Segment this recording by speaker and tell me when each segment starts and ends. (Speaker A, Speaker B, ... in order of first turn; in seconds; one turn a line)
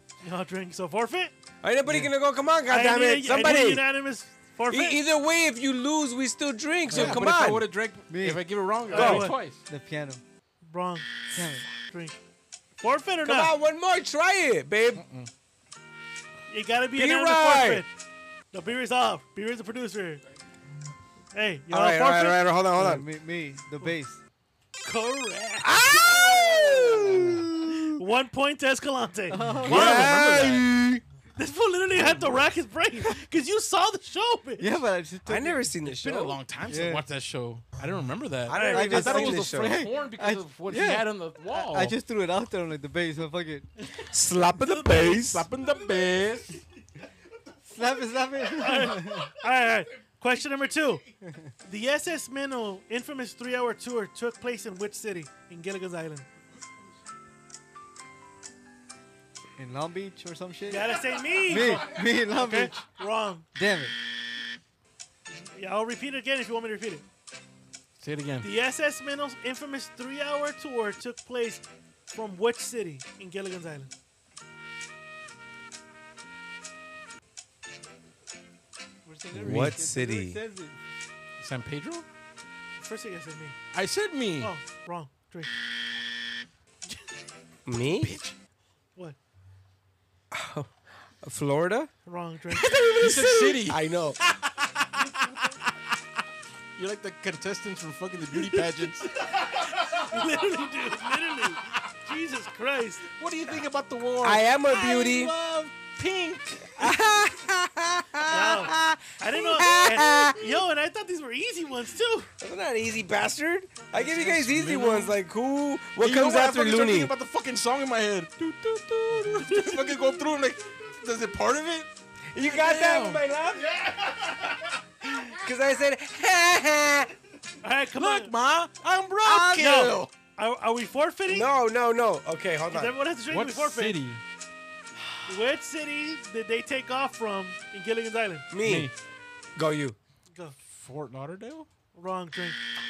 Speaker A: 0.2-1.3
Speaker B: 1.6-3.8
Speaker A: 2.7-5.0
Speaker B: 4.7-7.7
Speaker C: 6.9-9.6
Speaker D: 6.9-7.2
Speaker D: 8.1-8.4
Speaker A: 8.9-9.3
Speaker B: 8.9-9.3
Speaker D: 8.9-10.2
Speaker A: 10.6-11.1
Speaker D: 11.3-11.7
Speaker A: 11.9-12.2
Speaker A: 12.8-13.5
Speaker B: 13.2-15.0
Speaker C: 14.9-15.3
Speaker A: 16.5-17.9
Speaker B: 16.9-17.8
Speaker A: 18.5-20.2
Speaker A: 21.3-22.4
Speaker B: 21.7-23.1
Speaker D: 22.8-24.2
Speaker A: 24.8-29.5
Speaker B: 25.6-27.5
Speaker D: 27.0-27.9
Speaker D: 29.3-30.1
Speaker C: 29.6-30.6
Speaker B: 29.6-31.0
Speaker A: 31.4-34.8
Speaker D: 34.6-35.7
Speaker B: 35.2-36.4
Speaker C: 35.9-42.0
Speaker D: 36.7-37.0
Speaker B: 38.5-39.9
Speaker A: 38.5-39.1
Speaker D: 38.7-43.7
Speaker B: 44.1-45.5
Speaker A: 44.7-45.0
Speaker C: 44.9-46.6
Speaker D: 47.7-49.3
Speaker A: 48.5-51.1
Speaker D: 51.2-51.5
Speaker A: 51.6-56.3
Speaker D: 59.6-60.9
Speaker A: 60.7-63.5
Speaker D: 61.5-62.8
Speaker D: 63.5-63.9
Speaker A: 65.3-67.0
Speaker C: 68.0-68.5
Speaker A: 68.4-73.9
Speaker D: 79.0-80.8
Speaker B: 79.3-80.4
Speaker C: 81.4-82.0
Speaker A: 82.8-83.6
Speaker C: 83.7-84.5
Speaker A: 84.4-85.5
Speaker A: 86.8-87.2
Speaker B: 87.7-88.1
Speaker C: 87.8-88.3
Speaker B: 90.3-91.9
Speaker A: 92.0-93.1
Speaker C: 92.5-95.1
Speaker B: 92.6-94.2
Speaker A: 95.0-95.6
Speaker C: 96.8-99.1
Speaker A: 98.3-103.1
Speaker C: 103.2-106.9
Speaker B: 104.2-105.3
Speaker B: 106.8-110.6
Speaker A: 108.3-112.3
Speaker B: 112.4-117.1
Speaker C: 113.9-115.2
Speaker C: 116.0-123.2
Speaker A: 119.5-120.2
Speaker B: 122.3-124.0
Speaker B: 125.3-127.1
Speaker A: 127.6-128.3
Speaker C: 128.0-130.1
Speaker B: 129.2-129.8
Speaker A: 129.6-131.5
Speaker B: 131.3-133.0
Speaker A: 132.7-134.0
Speaker C: 133.3-134.2
Speaker A: 135.3-138.5
Speaker B: 138.5-138.9
Speaker C: 138.6-138.9
Speaker B: 139.6-140.0
Speaker C: 140.7-141.7
Speaker A: 141.9-142.6